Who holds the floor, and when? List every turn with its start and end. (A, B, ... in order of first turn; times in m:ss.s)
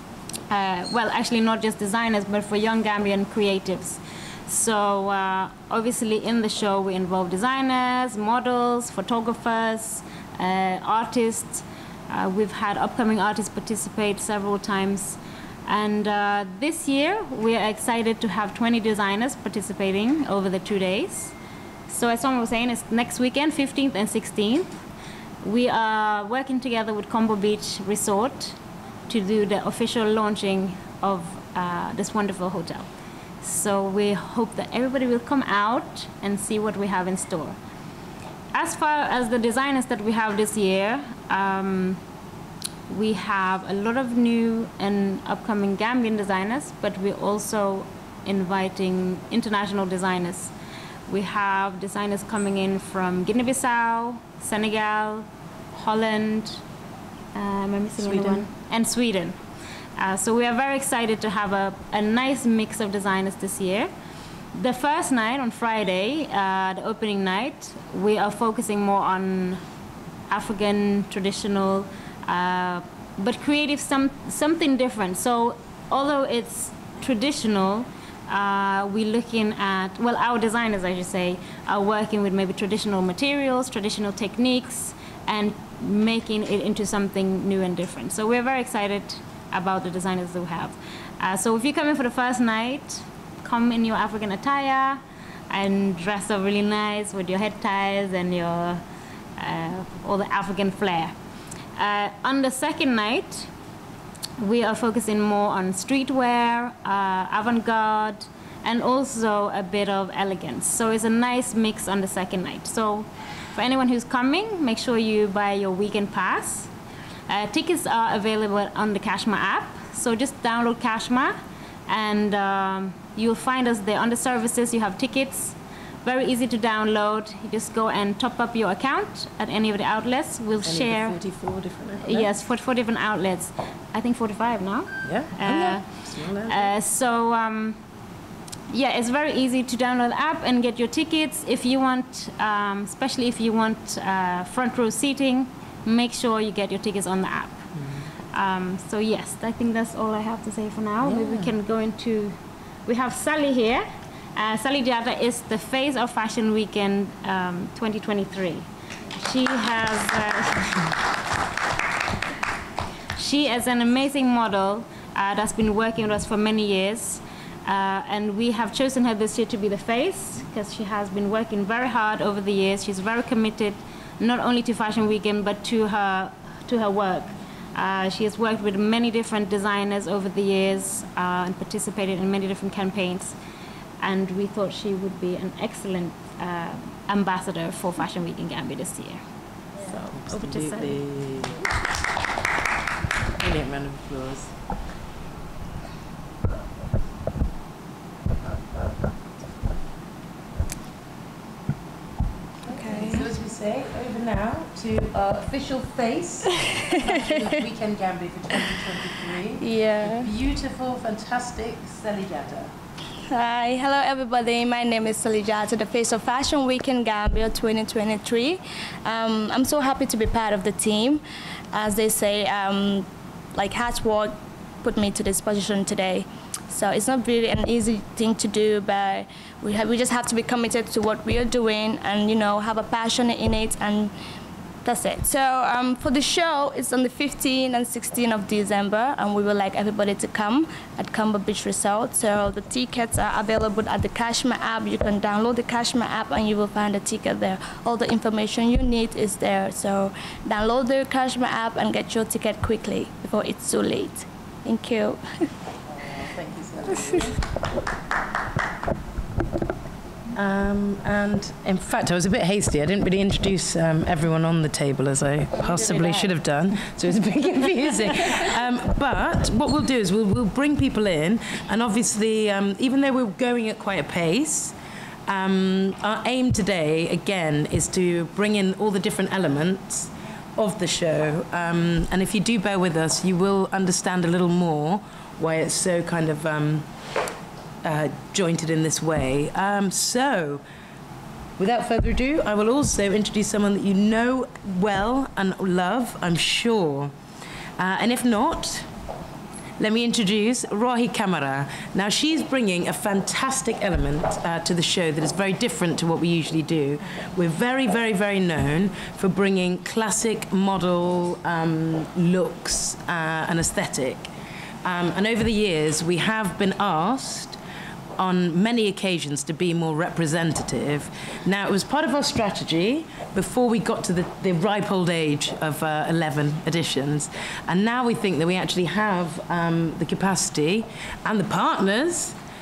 0:00.5-0:21.3 A
0:21.9-0:24.7 A
0:25.4-0:28.6 A
0:29.1-0:32.9 A
0:33.4-0:37.6 A
0:38.5-0:42.0 A
0:42.9-0:50.5 A
0:51.1-0:56.6 A
0:57.3-0:59.4 A
0:58.0-0:58.4 B
1:00.0-1:03.9 A
1:04.5-1:09.6 A
1:10.3-1:38.8 A
1:39.4-1:41.1 A
1:41.8-1:43.5 A
1:44.4-1:56.7 A
1:57.3-2:01.4 A
2:01.9-2:11.2 A
2:10.6-2:12.3 B
2:12.0-2:15.8 A
2:15.0-2:16.7 B
2:16.4-2:17.8 A
2:18.7-2:27.6 A
2:27.8-2:28.0 B
2:28.3-2:33.8 A
2:31.0-2:31.5 B
2:34.4-2:40.9 A
2:43.2-3:03.4 A
3:04.0-3:09.2 A
3:09.9-3:11.6 B
3:10.4-3:10.9 A
3:13.4-3:14.5 B
3:22.7-3:32.7 B
3:22.8-3:23.2 C
3:29.7-3:30.2 C
3:33.3-3:41.2 C
3:41.7-3:43.0 C
3:43.6-3:44.3 C
3:44.8-3:54.1 C
3:54.9-4:15.2 C
4:16.0-4:17.4 B
4:20.4-4:34.7 B
4:35.3-4:46.9 B
4:47.8-4:50.6 B
4:51.6-4:57.1 B
4:57.8-4:58.9 B
4:59.8-5:14.3 B
5:14.8-5:17.6 B
5:18.2-5:32.4 B